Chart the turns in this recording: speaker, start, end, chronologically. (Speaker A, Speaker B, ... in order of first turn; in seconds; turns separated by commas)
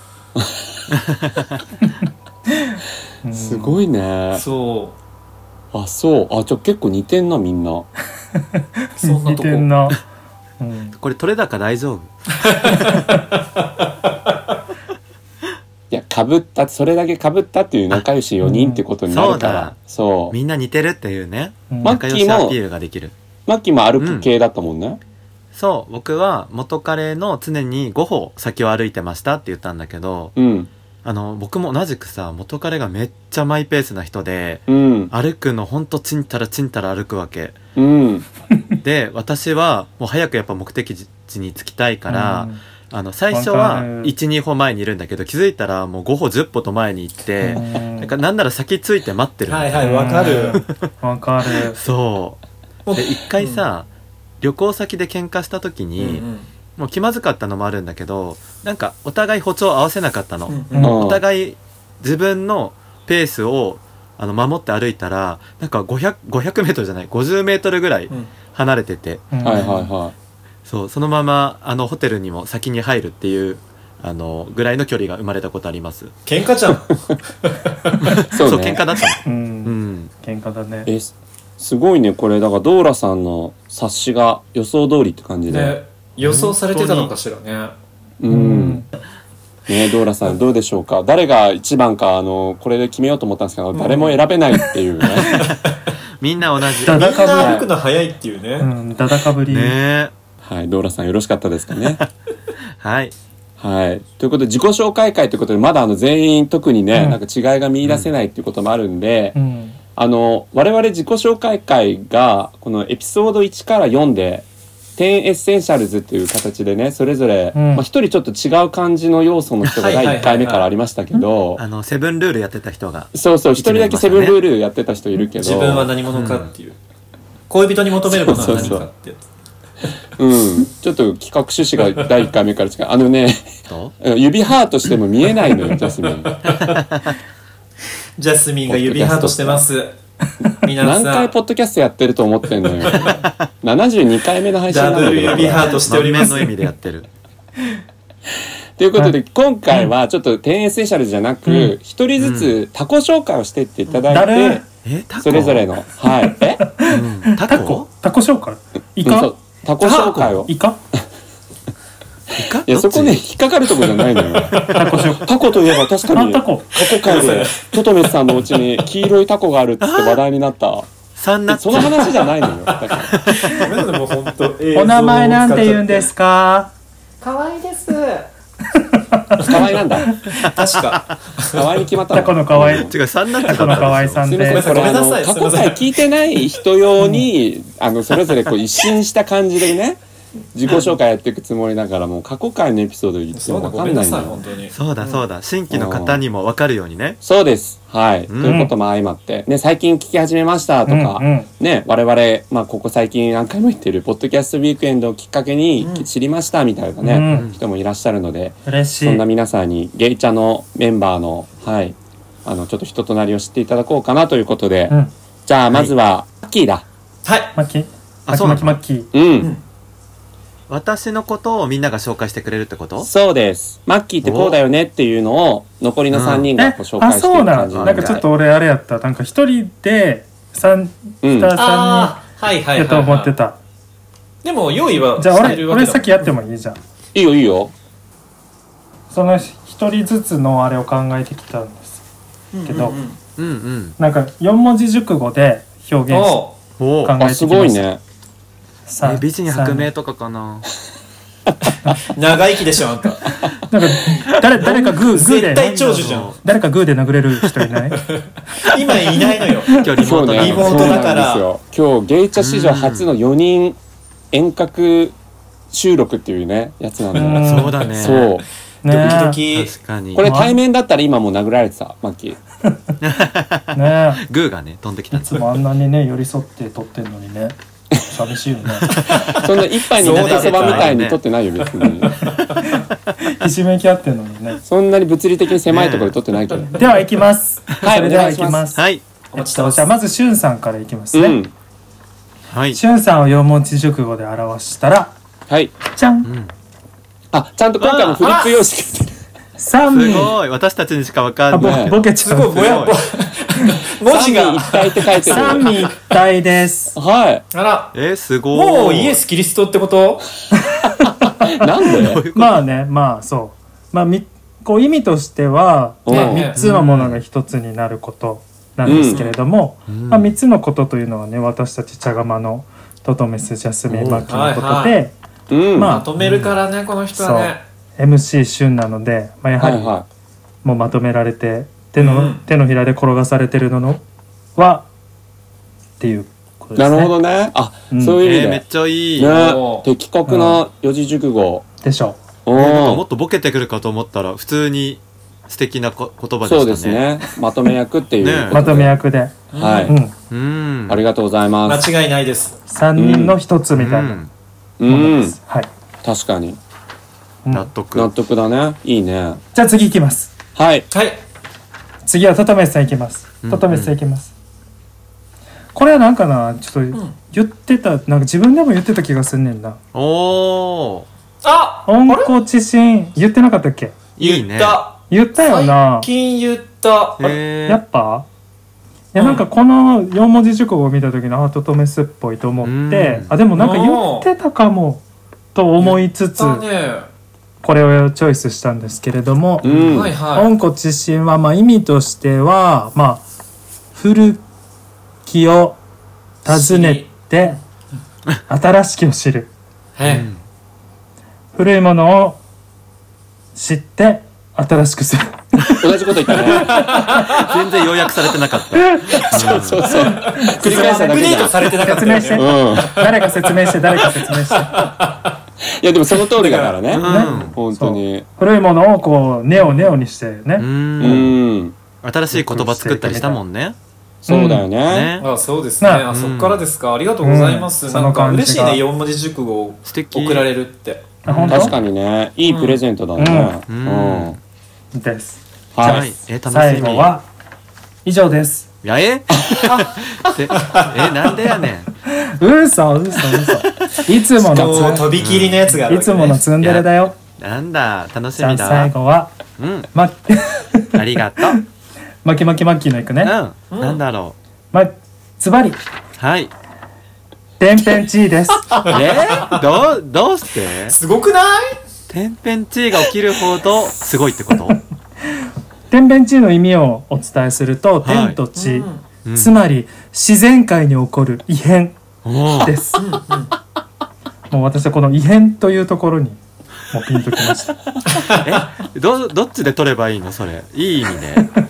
Speaker A: 0.4-0.6, Speaker B: 1.0-1.6, Speaker C: 2.6-3.8, Speaker A: 3.3-4.4, Speaker D: 4.3-4.9, Speaker A: 5.7-7.9, Speaker C: 8.4-10.0, Speaker D: 9.0-9.7, Speaker C: 10.6-11.0, Speaker B: 11.0-12.1, Speaker D: 12.4-14.1, Speaker A: 15.9-20.4, Speaker C: 18.4-18.8, Speaker B: 19.1-23.1, Speaker C: 21.7-22.0, Speaker A: 21.8-22.6, Speaker A: 23.5-25.0, Speaker B: 24.0-24.2, Speaker B: 25.5-30.3, Speaker A: 30.4-30.7, Speaker B: 31.0-37.6, Speaker A: 34.7-35.1, Speaker A: 37.7-38.2, Speaker B: 38.8-50.8, Speaker C: 42.1-42.6, Speaker C: 43.3-44.1, Speaker C: 47.4-48.1, Speaker D: 49.5-50.6, Speaker C: 49.8-51.8, Speaker B: 51.6-52.4, Speaker D: 52.9-53.6, Speaker B: 52.9-53.9, Speaker B: 54.4-56.2, Speaker D: 56.0-56.5, Speaker B: 56.8-69.3, Speaker D: 60.5-60.9, Speaker C: 60.7-61.0, Speaker A: 60.8-61.2, Speaker C: 69.3-69.7, Speaker A: 69.4-70.1, Speaker D: 69.5-69.9, Speaker B: 70.7-76.1, Speaker D: 76.2-78.2, Speaker B: 78.0-80.1, Speaker A: 78.2-78.8, Speaker C: 79.2-80.9, Speaker A: 80.8-85.8, Speaker D: 85.5-87.7, Speaker B: 86.2-87.1, Speaker A: 88.2-88.8, Speaker C: 88.3-88.9, Speaker A: 89.7-95.5, Speaker D: 93.7-94.2, Speaker D: 95.0-95.9, Speaker B: 96.2-97.2, Speaker D: 96.8-98.7, Speaker C: 96.8-97.6, Speaker A: 97.4-97.7, Speaker C: 98.6-99.8, Speaker B: 99.5-100.1, Speaker A: 100.4-102.0, Speaker B: 102.8-103.1, Speaker A: 103.6-109.3, Speaker C: 106.9-107.2, Speaker B: 107.8-108.1, Speaker C: 109.3-109.8, Speaker A: 110.0-114.5, Speaker A: 115.0-121.6, Speaker C: 117.5-117.9, Speaker D: 119.7-121.2, Speaker B: 121.6-124.3, Speaker A: 123.1-125.9, Speaker D: 125.4-126.8, Speaker B: 126.1-126.5, Speaker D: 127.5-129.2, Speaker A: 128.0-128.9, Speaker A: 130.2-133.5, Speaker B: 133.7-133.9, Speaker A: 134.0-136.3, Speaker D: 135.6-136.8, Speaker B: 136.4-137.1, Speaker D: 138.2-139.9, Speaker A: 138.7-139.7, Speaker D: 140.6-141.3, Speaker A: 140.8-145.9, Speaker D: 142.7-143.2, Speaker D: 144.7-146.5, Speaker B: 145.3-147.1, Speaker A: 148.8-154.6, Speaker C: 151.4-151.7, Speaker B: 152.2-152.5, Speaker C: 154.1-154.6, Speaker B: 154.8-155.7, Speaker A: 155.2-156.7, Speaker C: 156.2-159.3, Speaker B: 156.9-157.9, Speaker A: 159.0-160.5, Speaker D: 159.8-160.2, Speaker B: 160.0-160.3, Speaker C: 160.4-160.8, Speaker B: 162.3-163.2, Speaker A: 162.7-170.9, Speaker D: 163.9-165.0, Speaker C: 164.7-165.3, Speaker C: 166.1-166.7, Speaker D: 166.8-167.8, Speaker B: 169.8-170.2, Speaker B: 171.2-172.4, Speaker A: 171.5-173.3, Speaker D: 171.8-176.1, Speaker B: 173.0-173.7, Speaker C: 174.7-176.7, Speaker D: 177.2-178.3, Speaker C: 178.7-180.1, Speaker A: 179.4-180.2, Speaker D: 179.5-179.8, Speaker B: 180.3-181.1, Speaker D: 180.3-181.8, Speaker A: 181.5-182.9, Speaker C: 182.1-184.7, Speaker B: 182.6-184.4, Speaker A: 184.2-190.0, Speaker D: 184.5-186.0, Speaker C: 187.0-187.2, Speaker A: 190.5-194.4, Speaker D: 190.7-190.9, Speaker D: 193.3-195.2, Speaker B: 194.7-197.2, Speaker A: 195.7-196.2, Speaker A: 197.2-216.8, Speaker B: 198.3-198.7, Speaker C: 198.4-198.7, Speaker C: 200.9-201.5, Speaker D: 205.8-206.1, Speaker C: 207.0-207.5, Speaker B: 207.3-207.6, Speaker C: 208.7-209.2, Speaker D: 217.2-217.5, Speaker C: 217.5-219.1, Speaker B: 218.3-218.8, Speaker A: 219.1-219.5, Speaker B: 220.7-223.1, Speaker A: 223.0-228.2, Speaker B: 224.2-224.6, Speaker B: 226.1-226.5, Speaker C: 226.6-232.2, Speaker B: 227.7-228.2, Speaker A: 231.2-231.5, Speaker D: 231.5-233.3, Speaker C: 232.7-233.6, Speaker D: 234.4-236.3, Speaker C: 235.2-236.8, Speaker A: 237.1-237.7, Speaker C: 239.1-242.0, Speaker D: 242.5-243.2, Speaker C: 242.6-243.0, Speaker B: 243.4-244.0, Speaker C: 244.0-246.5, Speaker D: 246.1-246.5, Speaker B: 246.8-247.2, Speaker C: 247.0-247.9, Speaker A: 247.2-248.0, Speaker C: 248.8-249.9, Speaker B: 249.0-250.7, Speaker D: 252.1-253.4, Speaker C: 253.7-258.0, Speaker D: 254.6-256.4, Speaker B: 255.9-256.4, Speaker D: 258.1-261.4, Speaker B: 259.7-261.1, Speaker A: 260.0-263.8, Speaker B: 262.4-263.1, Speaker A: 264.3-265.1, Speaker A: 265.7-268.4, Speaker C: 267.1-268.2, Speaker B: 267.3-268.3, Speaker C: 268.8-269.4, Speaker D: 268.8-269.7, Speaker B: 269.5-270.3, Speaker A: 270.1-272.4, Speaker C: 270.2-270.6, Speaker B: 273.0-275.6, Speaker C: 273.7-274.2, Speaker C: 275.1-279.0, Speaker B: 278.9-279.3, Speaker D: 279.2-280.9, Speaker A: 279.3-282.2, Speaker B: 280.0-281.2, Speaker D: 281.7-282.6, Speaker C: 282.6-284.6, Speaker A: 284.6-287.0, Speaker B: 285.7-286.1, Speaker C: 286.8-291.4, Speaker A: 287.8-288.6, Speaker B: 288.7-289.0, Speaker D: 289.3-289.9, Speaker A: 291.1-291.5, Speaker B: 292.5-292.8, Speaker C: 292.7-295.1, Speaker A: 295.5-295.7, Speaker C: 295.9-296.3, Speaker B: 296.2-296.5, Speaker A: 297.3-299.2, Speaker D: 297.8-298.6, Speaker C: 299.6-300.3, Speaker B: 299.9-303.0, Speaker C: 301.5-302.8, Speaker A: 301.6-301.9, Speaker D: 302.2-305.9, Speaker A: 304.1-305.7, Speaker C: 305.2-306.9, Speaker A: 306.9-307.4, Speaker D: 307.5-307.9, Speaker B: 307.9-309.2, Speaker D: 308.5-310.3, Speaker C: 310.6-311.5, Speaker A: 311.2-312.2, Speaker B: 311.9-312.6, Speaker C: 312.3-325.1, Speaker A: 316.1-316.5, Speaker D: 316.1-316.6, Speaker B: 316.5-317.2, Speaker A: 318.8-319.2, Speaker D: 318.8-319.3, Speaker B: 319.9-320.3, Speaker B: 323.9-324.3, Speaker D: 324.3-325.0, Speaker A: 325.5-326.0, Speaker C: 325.7-326.1, Speaker D: 325.8-327.6, Speaker B: 326.2-326.5, Speaker C: 327.1-329.9, Speaker A: 329.6-330.1, Speaker C: 330.6-334.0, Speaker D: 332.0-332.4, Speaker C: 334.6-334.9, Speaker C: 336.0-337.1, Speaker A: 336.8-338.6, Speaker C: 337.9-338.2, Speaker B: 338.2-339.4, Speaker A: 339.2-341.6, Speaker D: 339.2-339.9, Speaker C: 340.2-340.6, Speaker C: 341.8-342.2, Speaker A: 342.4-343.0, Speaker B: 342.5-347.0, Speaker A: 346.4-349.0, Speaker B: 348.2-348.6, Speaker C: 348.5-350.1, Speaker D: 349.5-349.9, Speaker A: 349.5-349.9, Speaker B: 350.3-351.0, Speaker A: 350.9-351.9, Speaker D: 351.6-352.6, Speaker C: 352.7-354.2, Speaker A: 352.9-353.4, Speaker B: 353.7-354.3, Speaker A: 354.8-355.4, Speaker C: 354.9-355.7, Speaker A: 356.0-356.6, Speaker B: 357.5-358.1, Speaker A: 357.9-359.4, Speaker C: 359.5-360.3, Speaker A: 360.5-360.9, Speaker D: 360.9-361.2, Speaker C: 362.0-364.3, Speaker B: 363.4-363.9, Speaker C: 365.7-369.8, Speaker B: 369.9-371.1, Speaker D: 371.4-372.3, Speaker C: 371.9-373.9, Speaker B: 374.2-374.8, Speaker D: 374.2-377.4, Speaker C: 375.1-376.1, Speaker B: 377.2-377.8, Speaker C: 377.6-378.3, Speaker C: 379.1-385.0, Speaker D: 379.1-379.4, Speaker B: 382.6-383.4, Speaker D: 383.5-384.3, Speaker C: 385.5-386.6, Speaker D: 385.8-387.1, Speaker C: 387.6-393.2, Speaker A: 389.6-390.1, Speaker D: 389.6-390.5, Speaker B: 389.7-389.9, Speaker C: 393.9-394.4, Speaker C: 395.2-395.8, Speaker C: 396.4-397.6, Speaker D: 396.4-397.6, Speaker C: 398.5-399.5, Speaker D: 400.0-400.3, Speaker B: 400.0-400.4, Speaker C: 401.5-402.4, Speaker C: 403.5-407.2, Speaker A: 405.8-406.8, Speaker D: 406.6-407.5, Speaker B: 407.2-409.9, Speaker C: 408.7-414.8, Speaker A: 409.3-411.6, Speaker D: 410.0-415.3, Speaker A: 412.3-413.0, Speaker A: 415.6-418.2, Speaker D: 416.2-416.9, Speaker B: 416.9-417.6, Speaker C: 417.0-421.2, Speaker D: 419.5-419.9, Speaker B: 420.6-421.4, Speaker A: 421.0-421.7, Speaker B: 422.0-423.8, Speaker C: 422.3-423.4, Speaker A: 424.2-425.1, Speaker C: 424.3-424.7, Speaker B: 424.9-425.3, Speaker D: 425.2-431.5, Speaker C: 425.8-426.1, Speaker B: 426.1-426.6, Speaker C: 427.2-428.8, Speaker B: 429.9-430.5, Speaker C: 431.2-431.7, Speaker B: 431.2-431.9, Speaker A: 431.5-434.4, Speaker D: 432.4-432.8, Speaker C: 433.2-433.6, Speaker B: 433.7-434.4, Speaker C: 434.9-437.2, Speaker A: 435.7-436.1, Speaker B: 435.8-437.1, Speaker C: 438.0-438.7, Speaker B: 438.8-441.9, Speaker D: 440.5-441.4, Speaker C: 442.1-445.1, Speaker D: 444.3-446.5, Speaker B: 445.1-445.7, Speaker C: 445.9-447.2, Speaker B: 446.6-448.9, Speaker C: 448.4-449.3, Speaker B: 449.6-449.9, Speaker C: 449.9-451.6, Speaker B: 450.9-451.6, Speaker C: 452.2-453.3, Speaker B: 453.2-454.4, Speaker D: 453.7-454.0, Speaker C: 454.7-455.8, Speaker B: 456.2-456.5, Speaker C: 457.6-458.7, Speaker D: 458.8-459.6, Speaker B: 458.9-461.0, Speaker D: 460.8-461.8, Speaker B: 462.1-464.8, Speaker C: 465.9-472.0, Speaker B: 468.0-468.4, Speaker D: 468.5-469.0, Speaker B: 469.2-469.5, Speaker B: 472.2-472.8, Speaker C: 472.6-473.1, Speaker D: 473.0-473.5, Speaker C: 474.5-477.8, Speaker D: 478.1-478.6, Speaker B: 478.3-481.5